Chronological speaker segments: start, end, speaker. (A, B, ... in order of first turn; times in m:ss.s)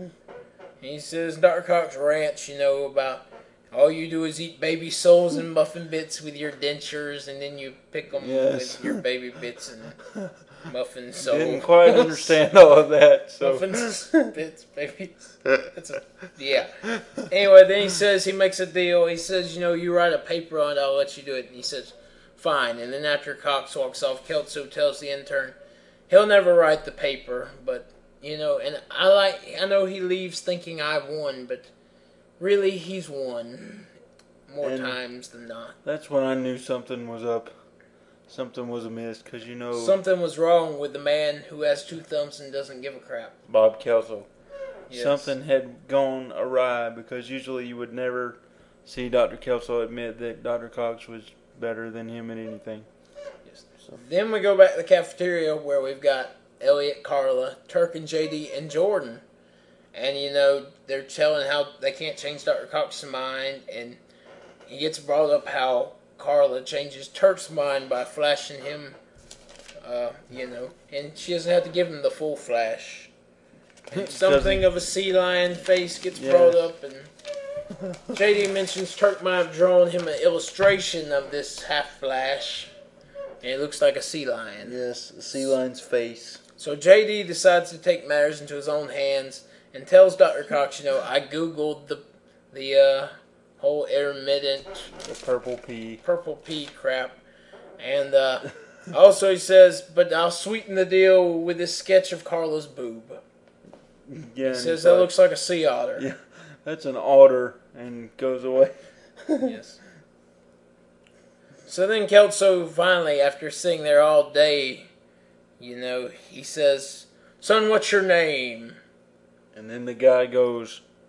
0:00.8-0:10.0 A
0:08.1-0:09.0 B
0:10.6-0:12.4 A
0:11.2-0:14.3 B
0:13.4-0:25.6 A
0:16.8-0:17.2 B
0:26.1-0:31.7 A
0:32.4-0:33.9 A
0:34.5-0:35.8 A
0:34.6-0:35.0 B
0:35.8-0:37.5 B
0:38.3-0:40.0 B
0:39.7-0:43.4 A
0:43.5-0:44.3 B
0:44.9-0:45.3 A
0:44.9-0:52.9 B
0:53.5-0:59.2 A
0:59.9-1:04.0 A
1:04.7-1:09.0 A
1:09.8-1:13.1 A
1:13.9-1:14.7 B
1:13.9-1:17.1 A
1:16.1-1:16.7 B
1:17.7-1:18.1 B
1:18.1-1:22.7 A
1:23.4-1:24.8 A
1:24.6-1:26.4 B
1:26.6-1:34.9 A
1:34.9-1:36.0 B
1:36.0-1:37.2 A
1:37.8-1:43.2 A
1:44.1-1:45.1 B
1:44.4-1:46.1 A
1:46.0-1:49.6 B
1:49.4-1:49.8 A
1:51.7-1:54.9 A
1:55.6-1:58.8 A
1:59.5-2:00.8 B